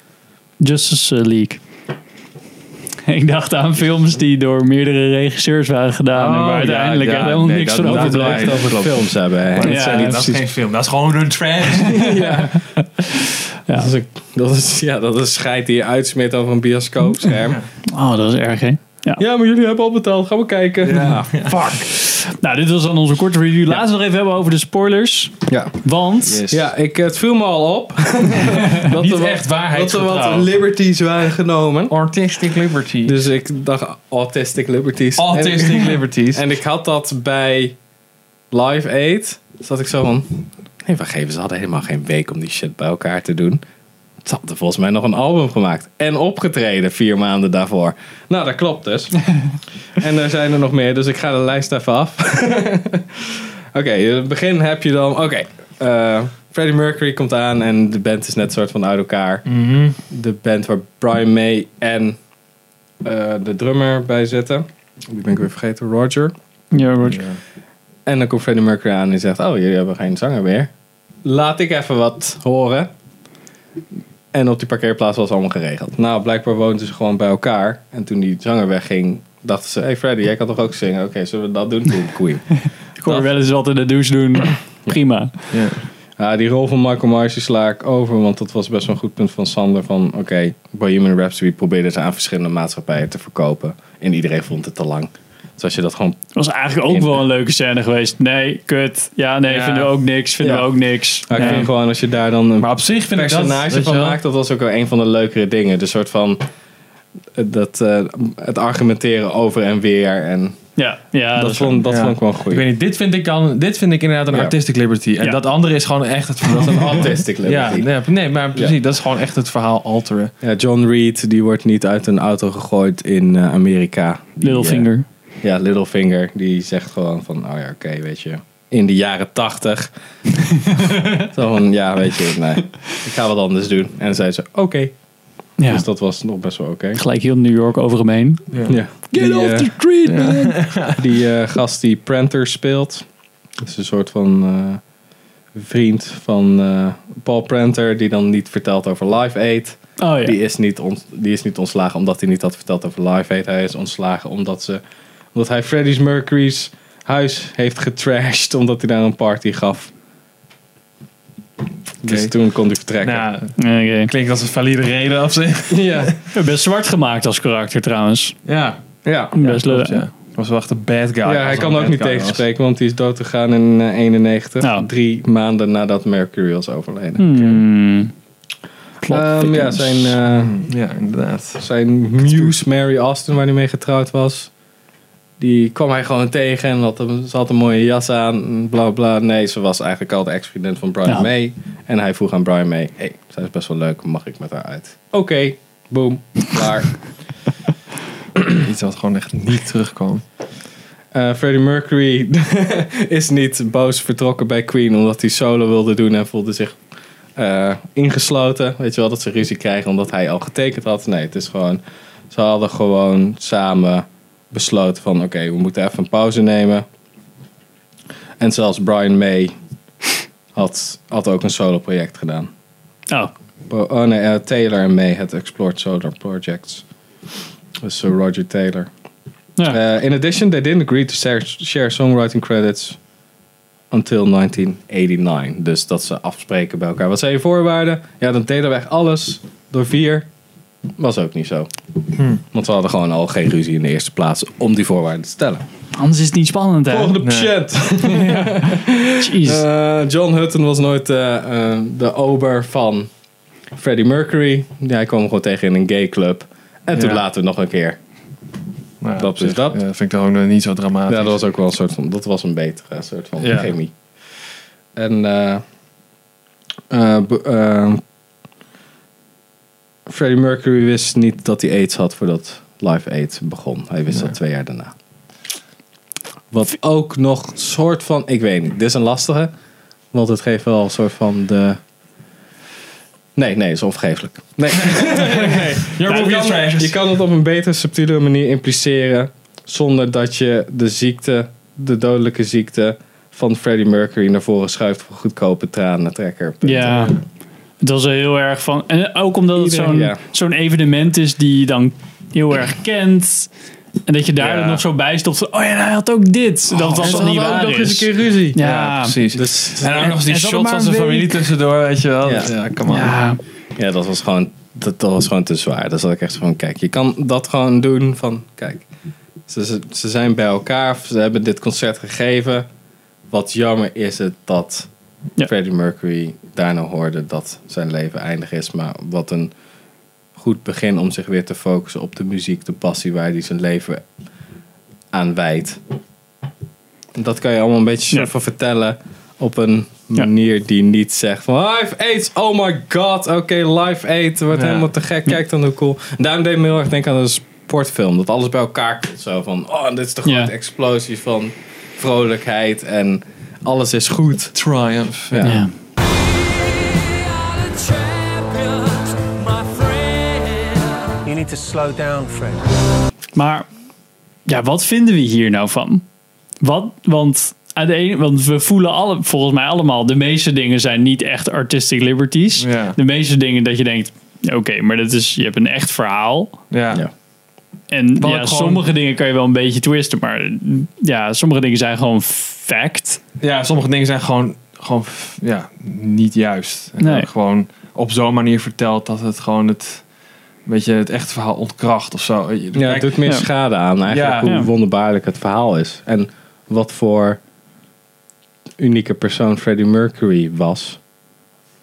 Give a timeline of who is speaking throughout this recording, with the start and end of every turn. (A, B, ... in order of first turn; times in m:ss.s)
0:00.6-0:01.6 A
0:03.1-0:08.6 A
0:06.1-0:12.1 B
0:07.8-0:10.2 C
0:09.6-0:10.4 A
0:11.8-0:13.9 A
0:11.8-0:12.6 C
0:13.7-0:17.6 C
0:17.9-0:19.2 A
0:19.2-0:21.4 C
0:20.8-0:21.6 B
0:21.4-0:26.5 A
0:25.5-0:25.8 C
0:26.2-0:26.6 B
0:26.5-0:32.0 C
0:28.9-0:30.5 B
0:31.9-0:33.2 B
0:33.0-0:37.8 C
0:35.2-0:36.5 B
0:38.5-0:43.6 C
0:44.2-0:59.5 C
0:59.5-1:00.0 B
1:00.0-1:02.2 C
1:03.0-1:06.3 C
1:06.7-1:07.2 A
1:07.1-1:07.4 B
1:08.1-1:10.7 C
1:11.2-1:12.9 C
1:14.3-1:23.3 C
1:23.0-1:25.6 A
1:25.5-1:25.8 B
1:26.2-1:36.3 C
1:36.4-1:41.7 A
1:36.9-1:37.2 C
1:39.5-1:39.9 B
1:40.4-1:40.7 C
1:41.2-1:46.4 C
1:41.4-1:41.7 B
1:42.6-1:44.2 B
1:47.4-1:50.6 C
1:50.8-1:51.8 A
1:51.4-1:52.6 C
1:51.8-2:00.3 B
1:56.6-1:57.9 C
2:00.4-2:04.9 C
2:04.4-2:05.0 A
2:05.4-2:09.9 C
2:10.6-2:15.0 C
2:10.8-2:11.3 A
2:15.6-2:15.8 A
2:15.7-2:17.0 C
2:17.0-2:18.6 A
2:18.5-2:18.8 B
2:18.7-2:19.8 C
2:19.1-2:20.6 A
2:20.1-2:21.0 B
2:20.9-2:23.0 C
2:23.6-2:24.8 C
2:25.5-2:34.8 C
2:30.0-2:30.4 A
2:35.3-2:39.9 C
2:42.0-2:43.2 C
2:42.0-2:42.3 B
2:43.0-2:46.1 B
2:43.6-2:44.1 A
2:45.7-2:46.2 C
2:46.3-2:48.4 A
2:48.5-2:48.8 B
2:49.0-2:49.4 C
2:49.4-2:50.1 A
2:49.4-2:52.4 B
2:51.2-2:57.3 C
2:54.6-2:54.9 A
2:57.2-2:58.1 A
2:59.0-3:00.1 A
2:59.0-3:00.6 C
3:00.3-3:01.6 B
3:01.6-3:04.5 C
3:02.2-3:02.5 B
3:05.4-3:17.0 C
3:18.5-3:20.2 B
3:21.1-3:26.8 C
3:27.4-3:36.8 C
3:38.4-3:39.5 C
3:40.5-3:42.5 C
3:43.7-3:46.8 C
3:47.8-3:48.9 C
3:49.7-3:53.0 C
3:53.9-4:00.3 C
4:01.0-4:01.7 C
4:02.4-4:05.6 C
4:06.0-4:07.1 A
4:06.9-4:13.1 C
4:07.2-4:07.5 B
4:08.1-4:09.6 A
4:13.8-4:18.0 C
4:16.9-4:17.2 B
4:19.0-4:21.4 B
4:19.2-4:19.8 C
4:21.1-4:23.9 C
4:23.4-4:23.7 B
4:25.0-4:25.6 C
4:26.9-4:28.0 C
4:30.1-4:34.9 C
4:36.5-4:39.5 C
4:40.1-4:41.8 C
4:43.4-4:57.0 C
4:44.8-4:47.0 B
4:56.6-4:57.2 A
4:56.8-4:57.2 B
4:57.8-5:03.5 A
4:59.6-5:00.2 C
5:04.1-5:09.2 A
5:04.4-5:04.8 B
5:06.8-5:08.6 C
5:07.0-5:07.8 B
5:08.6-5:13.1 B
5:09.3-5:10.2 C
5:09.8-5:11.5 A
5:12.2-5:12.6 C
5:12.9-5:13.4 A
5:13.8-5:18.9 C
5:19.5-5:22.7 C
5:23.3-5:29.5 C
5:30.4-5:34.0 C
5:35.1-5:35.8 C
5:37.1-5:54.6 C
5:44.5-5:44.9 B
5:50.2-5:50.5 A
5:54.6-5:55.4 B
5:55.3-5:55.6 C
5:55.4-5:55.7 A
5:57.7-6:02.7 D
6:03.4-6:03.7 A
6:04.5-6:06.0 A
6:06.6-6:16.6 A
6:12.6-6:13.0 B
6:16.7-6:17.0 B
6:17.9-6:23.2 A
6:18.2-6:18.8 B
6:23.4-6:30.0 B
6:27.0-6:27.3 A
6:30.7-6:33.2 B
6:32.7-6:37.4 C
6:34.1-6:34.5 B
6:38.8-6:41.0 C